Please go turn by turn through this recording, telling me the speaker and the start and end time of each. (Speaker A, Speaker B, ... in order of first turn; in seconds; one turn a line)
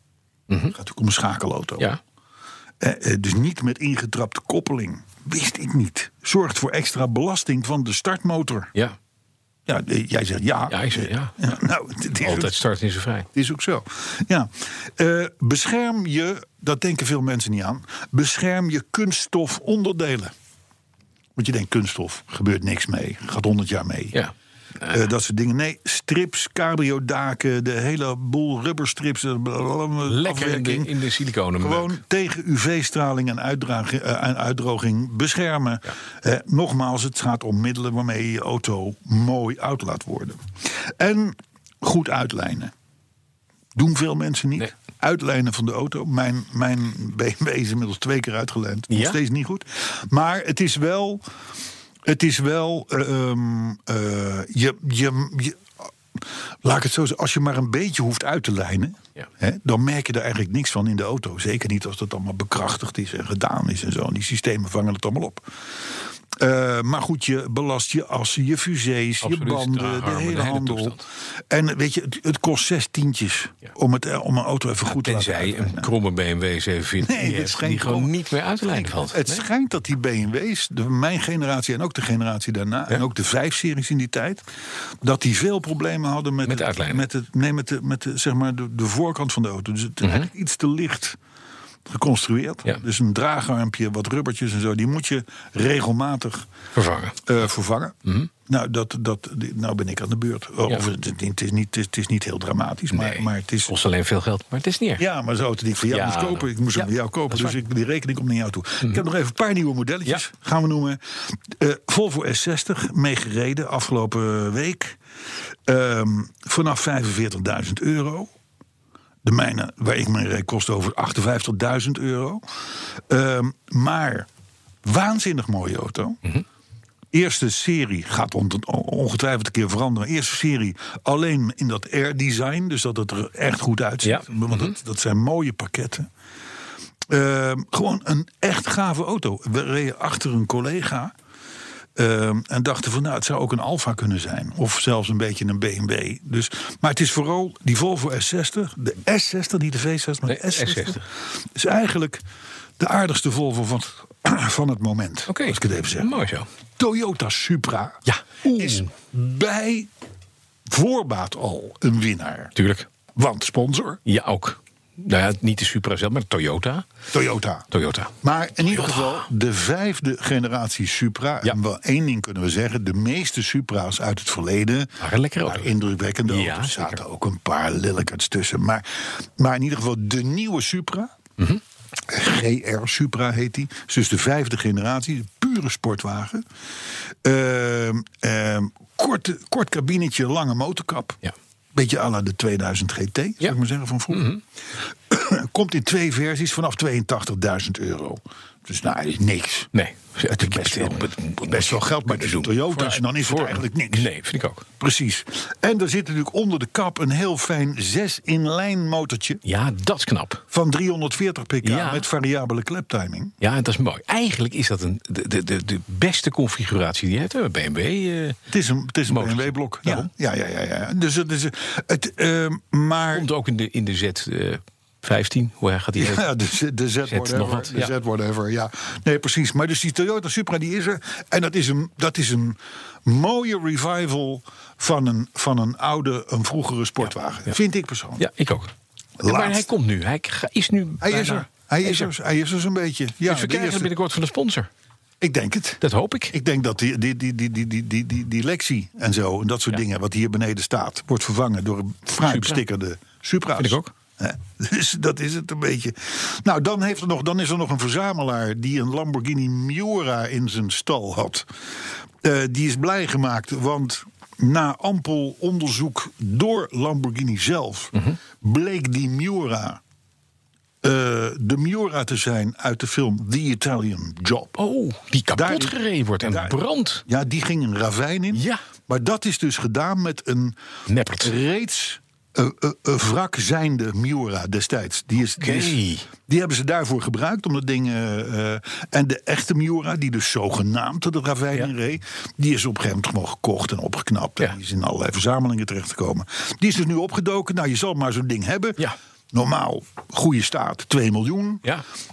Speaker A: 0.5-0.8
Speaker B: 0.8-1.9
Speaker B: 2.8-8.7
Speaker B: 9.7-12.6
Speaker A: 10.7-11.4
Speaker A: 12.2-13.3
Speaker B: 13.3-20.3
Speaker B: 21.4-24.2
Speaker A: 24.1-25.1
Speaker B: 24.9-30.9
Speaker A: 30.1-32.0
Speaker B: 31.6-42.7
Speaker B: 43.8-51.2
Speaker A: 48.9-49.2
Speaker B: 52.1-65.5
Speaker B: 66.4-75.9
Speaker A: 69.2-71.0
Speaker A: 74.9-79.4
Speaker B: 77.0-78.1
Speaker B: 78.7-84.4
Speaker B: 85.0-91.2
Speaker A: 86.5-87.0
Speaker A: 90.0-90.3
Speaker B: 91.9-96.5
Speaker A: 96.8-97.2
Speaker B: 97.2-103.7
Speaker A: 102.9-105.0
Speaker B: 105.0-115.0
Speaker A: 105.9-107.6
Speaker B: 115.7-118.3
Speaker B: 119.2-122.4
Speaker B: 123.1-124.3
Speaker B: 124.8-126.2
Speaker B: 127.1-136.1
Speaker A: 134.0-134.8
Speaker B: 137.1-141.1
Speaker B: 142.0-152.2
Speaker A: 150.3-151.1
Speaker B: 152.8-156.2
Speaker A: 155.3-156.5
Speaker B: 156.8-159.9
Speaker A: 158.1-158.9
Speaker B: 160.7-162.5
Speaker A: 162.6-162.9
Speaker B: 163.2-164.0
Speaker A: 164.1-166.9
Speaker B: 167.1-167.7
Speaker A: 167.7-168.1
Speaker B: 168.2-181.1
Speaker A: 168.7-169.2
Speaker A: 175.0-175.7
Speaker A: 176.3-177.0
Speaker B: 182.1-186.4
Speaker B: 187.2-191.2
Speaker B: 191.7-194.3
Speaker A: 194.1-194.4
Speaker B: 195.1-199.7
Speaker A: 199.7-204.7
Speaker B: 200.3-204.1
Speaker B: 204.8-209.4
Speaker A: 209.4-210.4
Speaker B: 210.5-213.3
Speaker A: 211.6-212.1
Speaker A: 213.4-218.4
Speaker B: 218.5-223.3
Speaker A: 219.1-220.1
Speaker A: 223.1-226.2
Speaker B: 226.0-238.2
Speaker A: 227.1-227.9
Speaker A: 238.2-238.7
Speaker B: 239.2-239.7
Speaker A: 239.2-242.1
Speaker B: 241.0-243.9
Speaker A: 243.2-244.7
Speaker B: 245.2-261.5
Speaker A: 245.8-246.3
Speaker A: 252.2-252.6
Speaker A: 253.6-253.9
Speaker B: 262.2-269.8
Speaker B: 270.8-274.6
Speaker A: 274.6-277.1
Speaker B: 275.3-280.6
Speaker A: 278.3-278.6
Speaker A: 280.9-281.3
Speaker B: 281.2-301.7
Speaker A: 285.4-286.1